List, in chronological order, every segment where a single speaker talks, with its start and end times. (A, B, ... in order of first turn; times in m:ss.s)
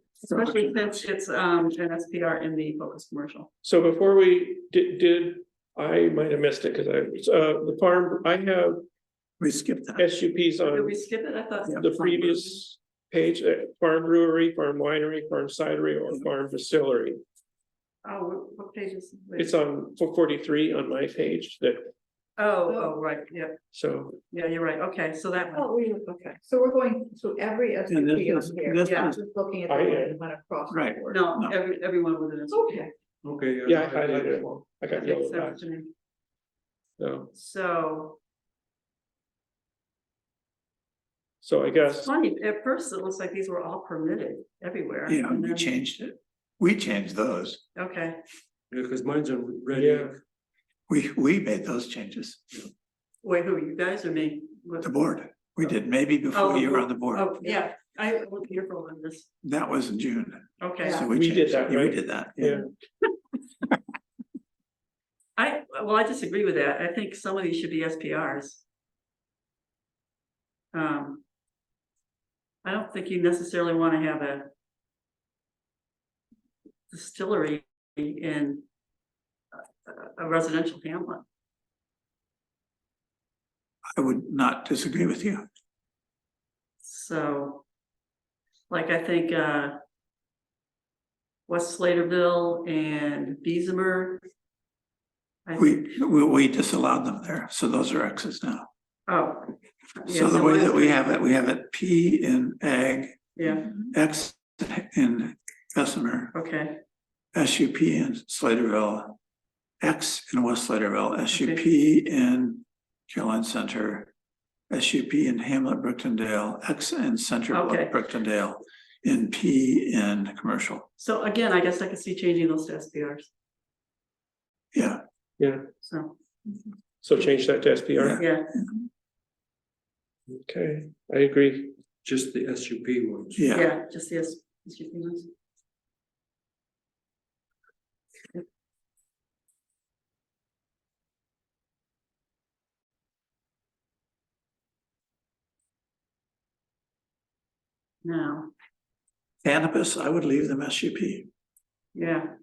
0:00.2-0:03.5 A
0:00.3-0:01.0 B
0:03.6-0:08.8 C
0:09.4-0:10.1 B
0:10.0-0:11.0 C
0:10.7-0:12.6 A
0:11.8-0:17.2 C
0:18.0-0:19.5 A
0:19.4-0:21.8 C
0:22.4-0:23.6 A
0:22.7-0:22.9 D
0:23.7-0:24.2 C
0:24.3-0:25.7 A
0:25.6-0:31.2 D
0:27.9-0:29.2 B
0:28.8-0:29.1 A
0:29.7-0:30.2 C
0:30.7-0:31.6 B
0:31.1-0:32.8 A
0:32.5-0:32.9 D
0:33.2-0:34.5 E
0:33.6-0:35.6 C
0:34.9-0:35.9 A
0:37.0-0:37.3 C
0:37.3-0:38.2 A
0:41.4-0:42.1 C
0:42.0-0:45.8 A
0:45.1-0:47.6 B
0:47.8-0:48.2 A
0:48.7-0:50.2 E
0:49.8-0:50.2 C
0:50.9-0:52.6 B
0:53.2-0:54.9 A
0:54.8-0:57.3 B
0:56.3-0:59.3 A
0:59.4-1:02.6 B
1:00.6-1:01.0 A
1:00.8-1:01.1 D
1:01.0-1:02.6 C
1:05.4-1:08.6 A
1:10.7-1:11.2 A
1:12.6-1:14.5 A
1:16.9-1:18.6 A
1:19.5-1:21.2 A
1:24.0-1:25.5 B
1:26.8-1:27.6 A
1:28.7-1:29.8 A
1:31.5-1:34.2 A
1:35.5-1:36.0 A
1:35.6-1:38.7 B
1:39.1-1:41.2 A
1:40.1-1:43.3 B
1:43.4-1:43.8 A
1:43.9-1:46.3 B
1:46.3-1:46.8 A
1:47.3-1:49.2 B
1:49.8-1:54.1 B
1:51.3-1:51.6 A
1:54.7-2:00.9 B
1:57.5-1:57.9 A
2:01.0-2:03.3 A
2:04.7-2:05.0 B
2:05.4-2:05.6 C
2:05.8-2:06.2 A
2:07.0-2:08.2 C
2:08.0-2:08.7 B
2:08.2-2:08.6 A
2:10.4-2:11.7 C
2:12.0-2:13.5 E
2:13.4-2:13.7 B
2:13.5-2:15.3 A
2:28.0-2:28.5 A
2:29.4-2:31.3 B
2:31.9-2:32.3 A